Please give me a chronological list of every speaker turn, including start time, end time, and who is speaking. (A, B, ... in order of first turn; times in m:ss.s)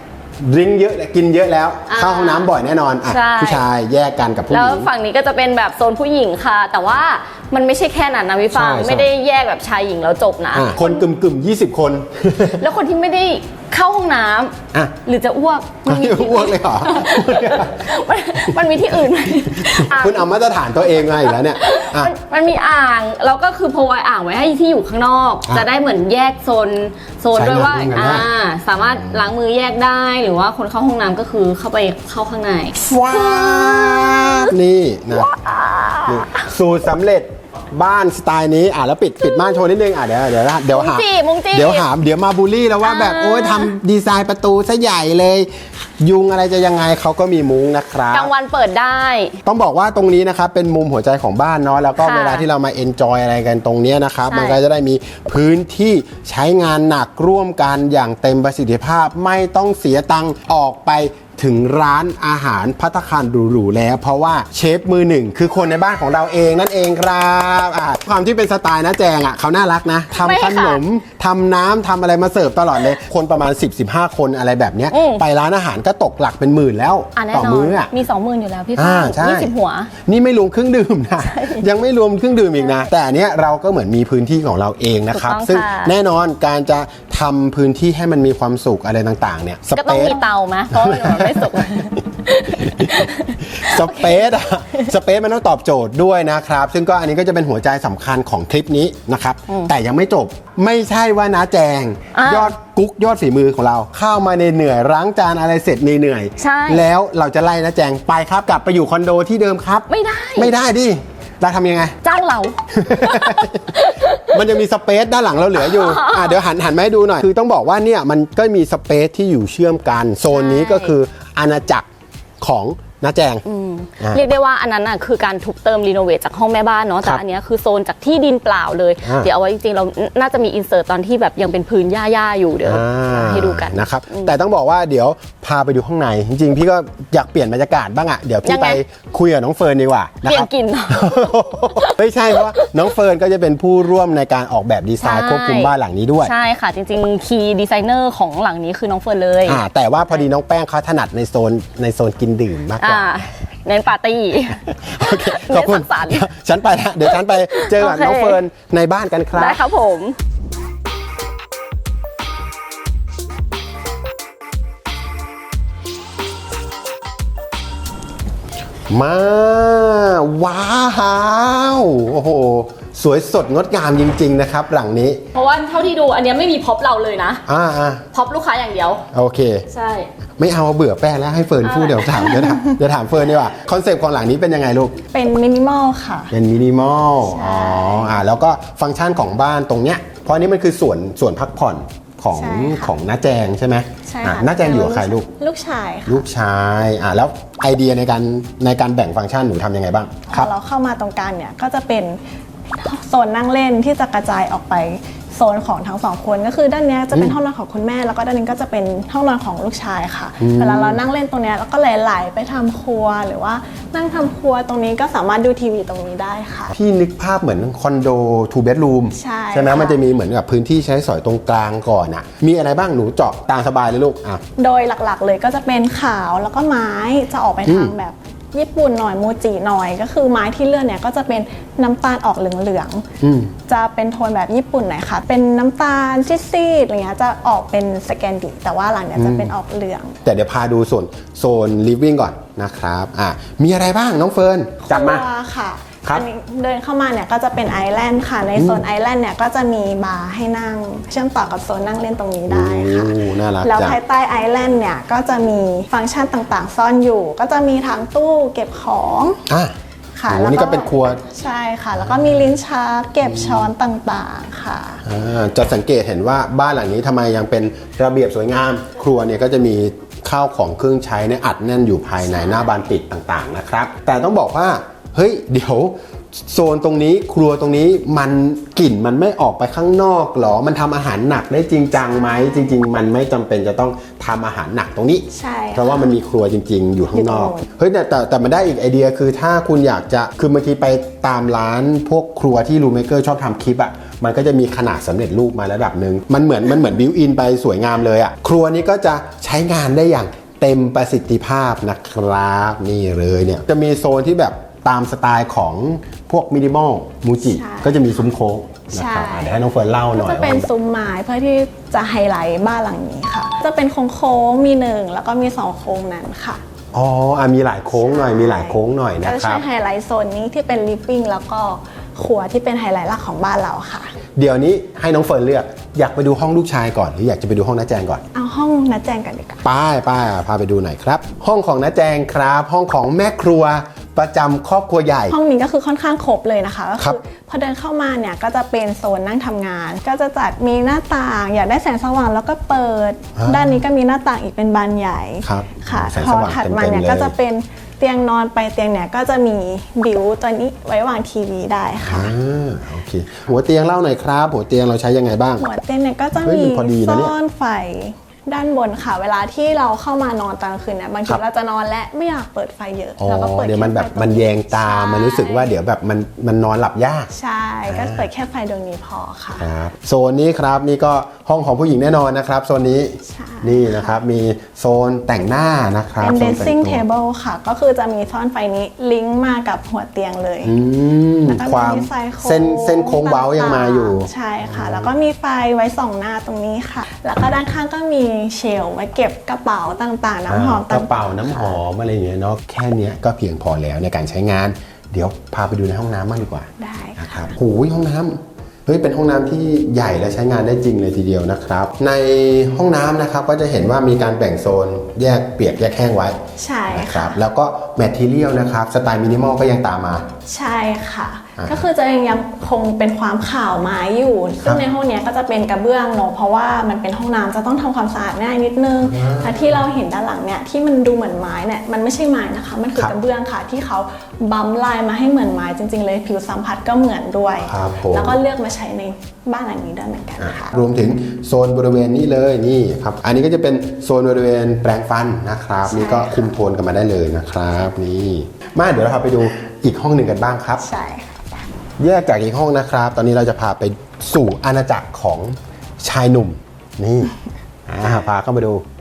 0:00.4-0:04.9 A
0:01.9-0:02.5 B
0:03.1-0:03.6 B
0:04.5-0:11.0 B
0:08.5-0:09.1 A
0:10.5-0:12.6 A
0:12.6-0:20.3 B
0:15.8-0:17.9 A
0:19.4-0:22.1 A
0:21.1-0:34.5 B
0:27.3-0:28.3 A
0:28.9-0:29.2 A
0:32.8-0:35.3 A
0:35.1-0:36.5 B
0:36.0-0:48.3 A
0:40.7-0:41.8 B
0:42.8-0:43.7 B
0:48.1-0:49.4 B
0:49.4-1:17.9 A
0:52.0-0:52.4 B
0:54.3-0:54.6 B
1:10.1-1:10.8 B
1:14.9-1:15.2 B
1:17.2-1:19.9 B
1:18.8-1:30.2 A
1:21.2-1:21.6 B
1:25.1-1:25.9 B
1:29.8-1:34.9 B
1:30.7-1:31.9 A
1:32.6-1:52.0 A
1:42.1-1:42.5 B
1:46.4-1:46.9 B
1:49.9-1:50.5 B
1:52.0-1:54.4 B
1:52.7-2:01.9 A
1:55.6-1:56.4 B
2:00.3-2:00.9 B
2:02.4-2:03.4 A
2:03.4-2:14.3 B
2:09.0-2:09.3 A
2:12.6-2:26.3 A
2:18.4-2:18.8 B
2:20.2-2:22.8 B
2:25.0-2:29.6 B
2:29.4-2:33.1 A
2:32.8-2:36.2 B
2:34.8-2:39.6 A
2:37.0-2:38.4 B
2:39.3-2:40.2 B
2:48.9-2:55.2 A
2:55.3-2:57.4 B
2:57.5-2:58.0 A
2:58.1-2:59.0 B
2:59.1-2:59.6 A
2:59.7-3:00.1 B
3:00.4-3:05.0 A
3:01.6-3:02.4 B
3:05.1-3:06.3 C
3:06.3-3:15.3 A
3:07.2-3:08.1 C
3:12.3-3:12.9 C
3:14.0-3:16.2 C
3:16.1-3:20.5 A
3:20.3-3:22.2 C
3:22.8-3:36.7 C
3:27.1-3:27.4 A
3:30.4-3:31.0 A
3:36.7-3:44.4 A
3:39.1-3:40.0 C
3:44.6-3:53.0 C
3:47.6-3:47.9 A
3:53.2-3:53.5 A
3:53.7-4:00.2 C
3:59.1-3:59.5 A
4:00.2-4:05.3 A
4:04.8-4:19.4 C
4:08.5-4:08.8 A
4:12.5-4:14.0 A
4:19.5-4:19.7 A
4:20.2-4:25.0 C
4:20.3-4:21.2 A
4:22.0-4:22.5 A
4:23.2-4:23.7 A
4:25.0-5:10.7 A
4:32.2-4:32.7 C
4:42.0-4:42.8 C
4:45.3-4:46.1 C
4:47.1-4:47.6 C
5:07.4-5:08.1 C
5:08.9-5:09.6 C
5:10.1-5:16.6 C
5:16.9-5:19.6 A
5:17.9-5:24.1 C
5:24.4-5:28.2 A
5:28.3-5:29.6 C
5:29.6-5:35.4 A
5:35.3-5:52.3 C
5:43.4-5:43.8 A
5:45.4-5:47.3 A
5:52.0-5:55.6 A
5:55.6-6:05.7 C
5:56.4-5:57.3 A
6:03.2-6:07.3 A
6:07.3-6:09.7 C
6:07.9-6:08.3 A
6:09.6-6:17.0 A
6:13.3-6:14.2 C
6:16.2-6:20.7 C
6:20.6-6:25.1 A
6:21.5-6:31.8 C
6:30.5-6:46.4 A
6:36.8-6:37.5 C
6:46.6-6:47.4 C
6:46.9-6:50.3 A
6:50.5-7:10.7 C
6:51.6-6:51.9 A
6:59.0-6:59.8 A
7:07.6-7:08.4 A
7:10.4-7:20.8 A
7:15.8-7:16.5 C
7:20.8-7:21.7 C
7:22.0-7:27.3 A
7:27.9-7:28.8 A